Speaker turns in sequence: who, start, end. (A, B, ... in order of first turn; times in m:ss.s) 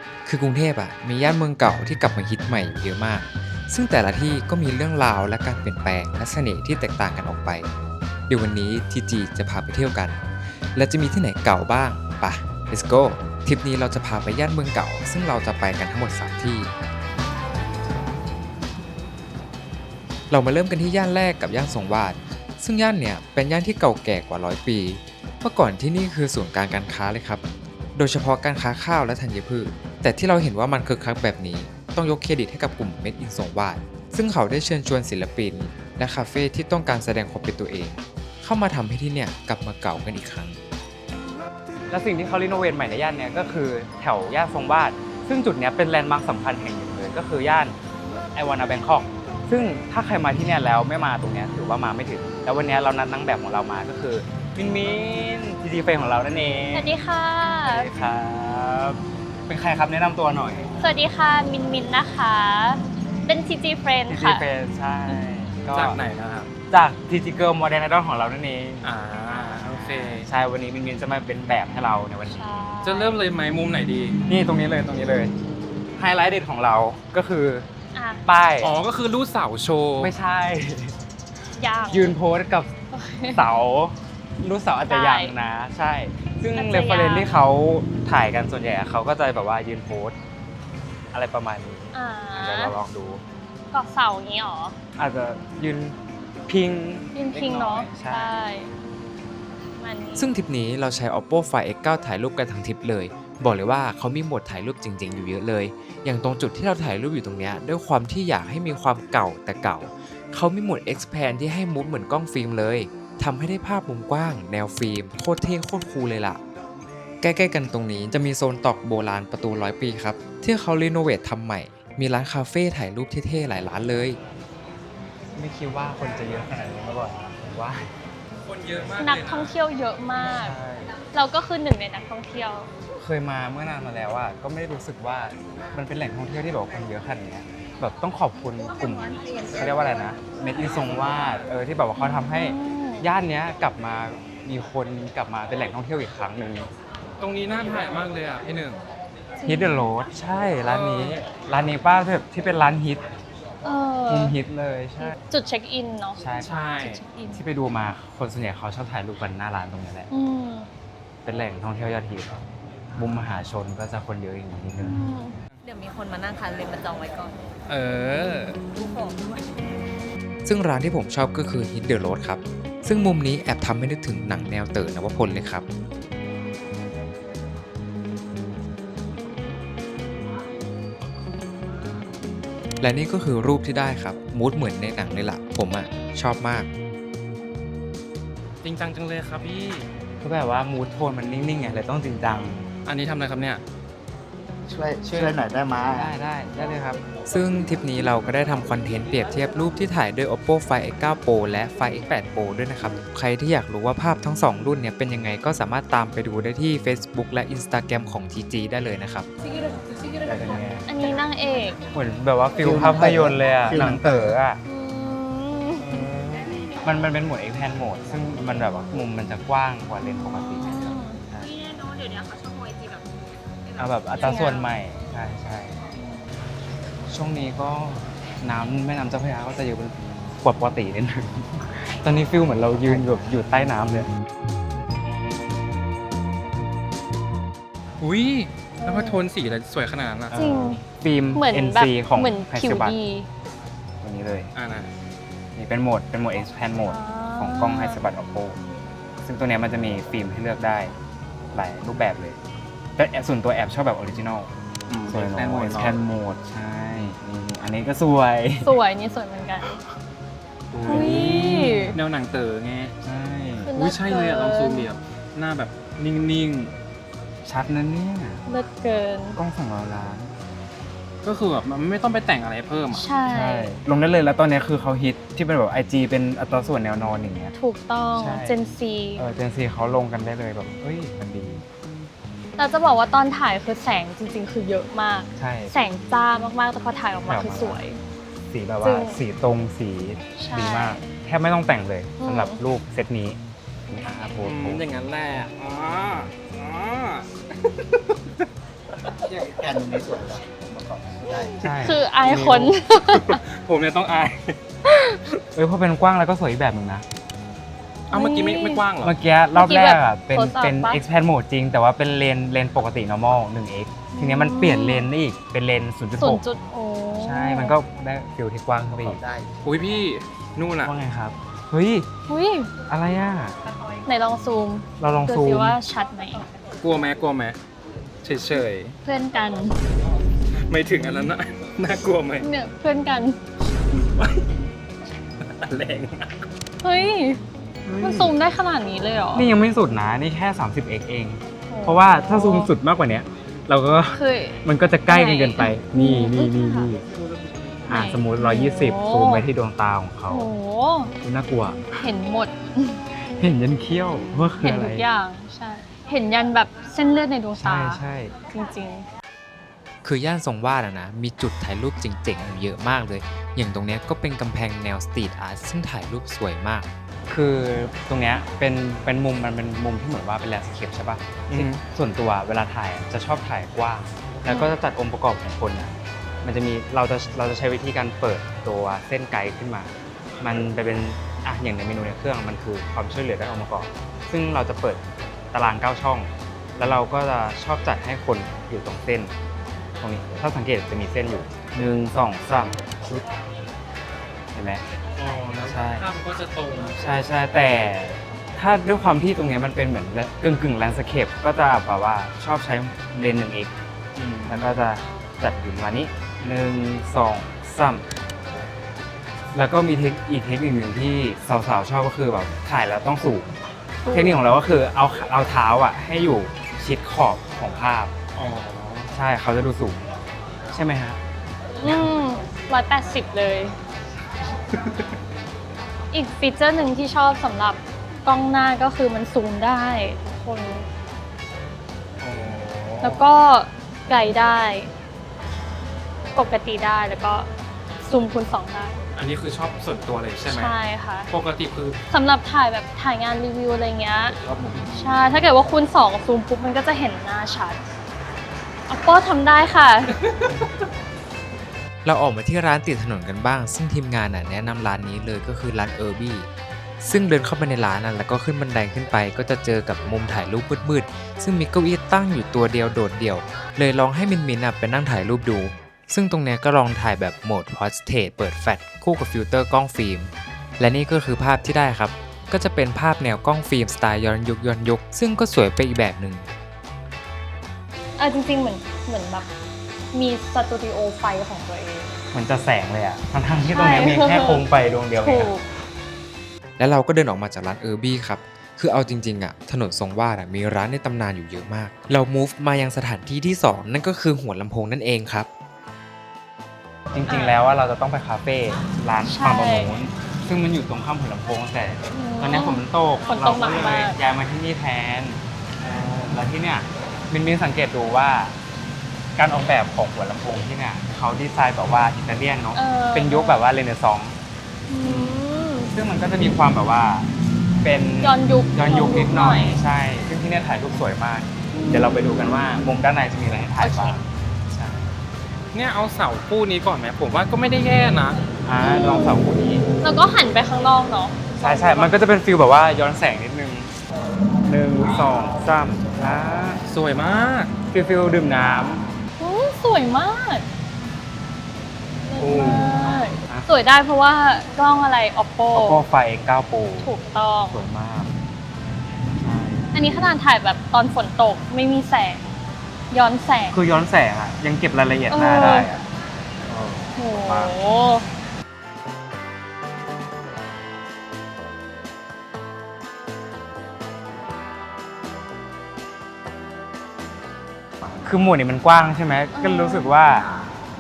0:00.2-0:07.7 A
0:08.3-0:10.2 A
0:10.7-0:16.7 A
0:20.3-0:27.4 A
0:27.9-0:40.6 A
0:41.9-0:47.8 B
0:48.3-0:56.9 B
0:56.7-0:57.9 C
0:57.6-1:00.7 B
1:00.8-1:04.4 C
1:04.1-1:06.0 B
1:05.7-1:06.5 D
1:06.7-1:08.9 B
1:08.8-1:10.3 D
1:09.6-1:12.5 B
1:12.2-1:13.2 C
1:12.8-1:14.2 D
1:14.3-1:15.3 B
1:16.0-1:17.7 B
1:17.9-1:18.2 C
1:18.2-1:18.7 B
1:18.6-1:20.1 D
1:20.0-1:21.0 B
1:21.5-1:22.2 C
1:21.9-1:22.7 B
1:22.9-1:23.5 C
1:23.3-1:30.2 B
1:24.9-1:25.3 C
1:26.5-1:27.4 C
1:31.1-1:33.2 B
1:31.9-1:32.7 C
1:33.7-1:34.8 C
1:35.0-1:38.3 B
1:37.1-1:38.7 C
1:39.8-1:40.3 C
1:40.2-1:56.4 A
1:57.2-2:04.2 A
2:05.3-2:07.9 B
2:08.4-2:09.5 D
2:09.0-2:10.6 C
2:10.2-2:11.0 B
2:11.1-2:12.7 C
2:12.9-2:26.7 B
2:22.0-2:23.1 C
2:27.2-2:28.8 D
2:29.4-2:29.9 C
2:29.4-2:33.0 B
2:30.6-2:31.2 D
2:33.6-2:34.3 C
2:34.1-2:35.1 B
2:35.0-2:37.4 C
2:36.2-2:40.1 B
2:36.4-2:37.0 D
2:40.1-2:40.7 C
2:41.2-2:42.4 B
2:42.9-2:45.0 B
2:44.8-2:45.4 C
2:45.6-2:47.4 E
2:47.7-2:48.7 D
2:48.7-2:49.4 E
2:50.4-2:55.6 A
3:02.8-3:06.7 A
3:08.6-3:09.9 D
3:10.2-3:12.7 B
3:12.8-3:13.6 D
3:14.7-3:16.1 F
3:15.1-3:17.0 B
3:17.1-3:29.3 A
3:30.2-3:31.1 B
3:30.8-3:31.8 C
3:31.9-3:34.6 B
3:32.6-3:34.2 F
3:34.6-3:36.1 C
3:35.9-3:40.8 B
3:40.4-3:41.2 C
3:41.7-3:43.0 E
3:43.8-3:45.9 B
3:44.2-3:44.7 C
3:47.1-3:54.1 B
3:58.0-4:00.3 D
3:58.8-3:59.2 C
4:00.3-4:03.0 B
4:00.3-4:03.3 C
4:04.0-4:04.5 B
4:04.5-4:04.9 D
4:05.5-4:08.6 B
4:06.8-4:08.0 C
4:09.2-4:10.9 B
4:11.5-4:12.4 B
4:13.0-4:14.5 B
4:14.9-4:16.0 D
4:15.1-4:18.7 B
4:18.6-4:19.7 C
4:20.7-4:22.0 B
4:20.7-4:22.9 D
4:20.9-4:21.9 C
4:23.0-4:23.7 B
4:23.6-4:24.9 C
4:23.8-4:26.7 D
4:27.4-4:28.4 B
4:28.4-4:29.4 C
4:29.4-4:30.3 B
4:31.2-4:33.0 D
4:32.9-4:33.8 C
4:33.3-4:37.5 B
4:37.6-4:39.2 C
4:38.1-4:38.6 B
4:39.2-4:41.6 B
4:42.6-4:48.0 C
4:45.4-4:45.8 B
4:47.2-4:47.8 B
4:48.5-4:53.4 B
4:48.8-4:49.2 C
4:50.4-4:51.0 C
4:52.2-4:52.6 C
4:53.9-4:54.8 B
4:54.4-4:58.4 D
4:59.3-5:01.5 F
5:01.4-5:03.4 C
5:01.6-5:02.4 B
5:02.2-5:04.6 D
5:04.9-5:05.2 C
5:05.5-5:07.0 B
5:08.1-5:08.8 C
5:08.1-5:09.1 D
5:09.0-5:16.4 B
5:09.5-5:11.0 C
5:14.1-5:15.1 C
5:16.2-5:17.8 C
5:17.2-5:19.2 B
5:19.0-5:19.4 F
5:19.6-5:20.9 D
5:20.8-5:22.1 B
5:22.3-5:22.7 C
5:22.9-5:23.6 B
5:24.0-5:26.5 C
5:25.0-5:25.8 B
5:26.8-5:27.6 D
5:28.2-5:29.0 D
5:29.0-5:29.8 C
5:30.5-5:32.5 D
5:32.4-5:33.4 C
5:33.9-5:34.5 D
5:35.4-5:36.4 D
5:36.8-5:37.4 C
5:37.8-5:38.4 B
5:38.0-5:39.5 C
5:39.3-5:47.0 B
5:41.7-5:42.7 C
5:44.1-5:46.9 C
5:47.8-5:50.5 B
5:47.9-5:49.5 C
5:50.3-5:51.1 C
5:51.2-5:51.8 B
5:52.0-5:53.0 C
5:53.4-5:55.0 B
5:54.1-5:59.1 C
5:57.6-5:58.3 B
6:00.0-6:06.9 A
6:07.3-6:29.3 B
6:11.5-6:11.8 D
6:14.5-6:14.7 C
6:30.0-6:33.2 B
6:34.5-6:34.8 B
6:35.2-6:37.0 D
6:35.6-6:36.1 B
6:37.0-6:43.7 B
6:44.2-6:44.5 D
6:44.4-6:48.0 B
6:49.5-6:53.5 B
6:54.0-6:54.5 C
6:54.1-6:58.1 B
6:58.4-6:59.1 D
6:59.1-7:00.1 B
7:00.7-7:01.2 B
7:01.8-7:03.8 C
7:01.8-7:02.1 B
7:04.7-7:05.1 D
7:06.1-7:10.8 C
7:12.2-7:13.2 D
7:13.0-7:14.9 C
7:16.3-7:17.5 C
7:18.0-7:19.0 C
7:19.1-7:20.7 D
7:20.5-7:21.3 C
7:21.3-7:22.0 D
7:22.1-7:24.4 C
7:24.4-7:25.2 D
7:24.9-7:27.8 C
7:28.9-7:30.2 C
7:32.0-7:36.5 A
7:37.0-7:56.5 A
7:58.2-7:59.5 C
8:00.1-8:02.2 C
8:02.3-8:05.5 B
8:03.7-8:04.6 C
8:05.2-8:05.6 C
8:06.8-8:15.5 A
8:17.1-8:28.6 B
8:17.3-8:17.6 C
8:19.2-8:20.0 C
8:22.1-8:24.2 C
8:29.3-8:34.4 B
8:32.7-8:33.7 C
8:34.9-8:35.9 C
8:35.0-8:35.4 B
8:35.9-8:45.2 B
8:38.2-8:39.8 C
8:41.7-8:42.3 C
8:43.8-8:44.2 C
8:45.7-8:48.4 D
8:48.6-8:49.8 B
8:48.8-8:52.2 C
8:51.6-8:54.0 B
8:54.6-8:56.8 B
8:56.8-8:57.7 D
8:57.9-8:59.0 B
8:59.4-9:00.7 C
9:02.2-9:06.0 C
9:02.4-9:03.7 B
9:05.7-9:07.1 B
9:07.0-9:07.8 C
9:07.7-9:08.4 B
9:09.4-9:09.9 B
9:09.9-9:12.4 C
9:13.1-9:13.8 C
9:13.7-9:16.0 B
9:15.3-9:15.9 C
9:16.7-9:17.8 B
9:17.2-9:18.2 C
9:28.2-9:30.5 B
9:29.5-9:30.1 C